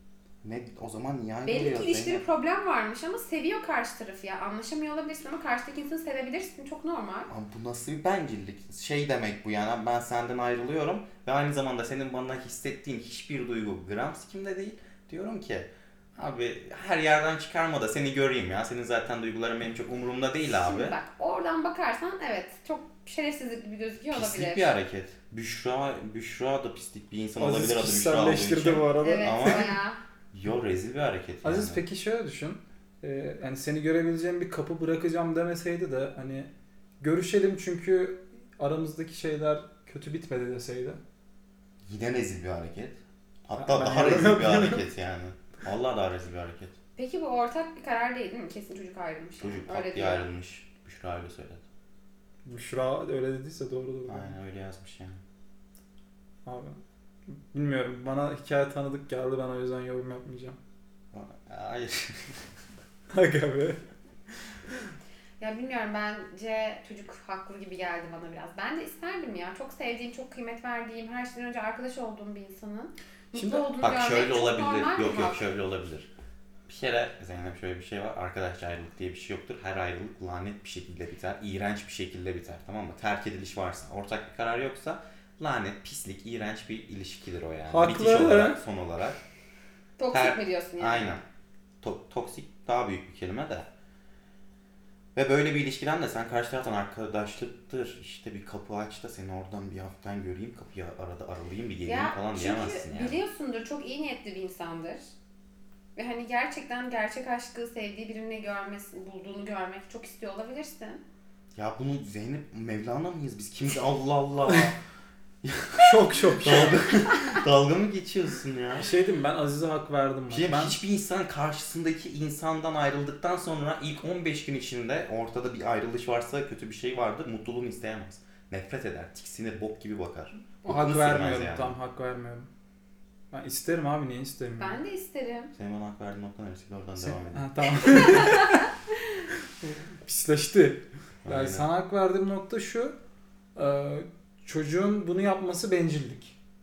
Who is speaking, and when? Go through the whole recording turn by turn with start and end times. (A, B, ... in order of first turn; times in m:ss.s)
0:00.4-0:02.2 A
0:01.5-0:07.3 B
0:07.3-0:21.0 A
0:20.5-0:24.8 B
0:24.1-0:29.7 A
0:27.4-0:29.7 C
0:29.0-0:30.0 B
0:30.3-0:31.8 A
0:31.4-0:41.0 C
0:41.9-0:46.8 A
0:43.6-0:44.8 C
0:47.0-0:50.3 B
0:49.4-0:51.6 A
0:52.5-0:54.4 C
0:54.1-0:55.2 A
0:56.5-0:56.8 C
0:57.4-1:00.6 C
1:01.1-1:02.4 A
1:03.1-1:03.8 C
1:05.4-1:15.5 B
1:13.4-1:13.7 C
1:13.8-1:16.1 A
1:16.7-1:29.2 A
1:27.7-1:28.6 C
1:30.0-1:31.2 B
1:30.1-1:31.2 A
1:31.8-1:33.7 A
1:35.2-1:43.2 A
1:41.8-1:45.1 B
1:46.0-1:51.0 B
1:51.6-1:54.8 A
1:55.4-1:58.9 A
1:55.8-1:56.8 C
1:57.0-1:57.4 B
1:58.8-2:00.8 C
2:00.3-2:11.8 A
2:10.6-2:12.5 C
2:13.3-2:14.8 C
2:14.6-2:15.5 B
2:15.6-2:18.3 A
2:17.0-2:18.7 C
2:18.0-2:19.3 B
2:19.6-2:22.9 C
2:21.2-2:21.7 A
2:23.6-2:26.4 C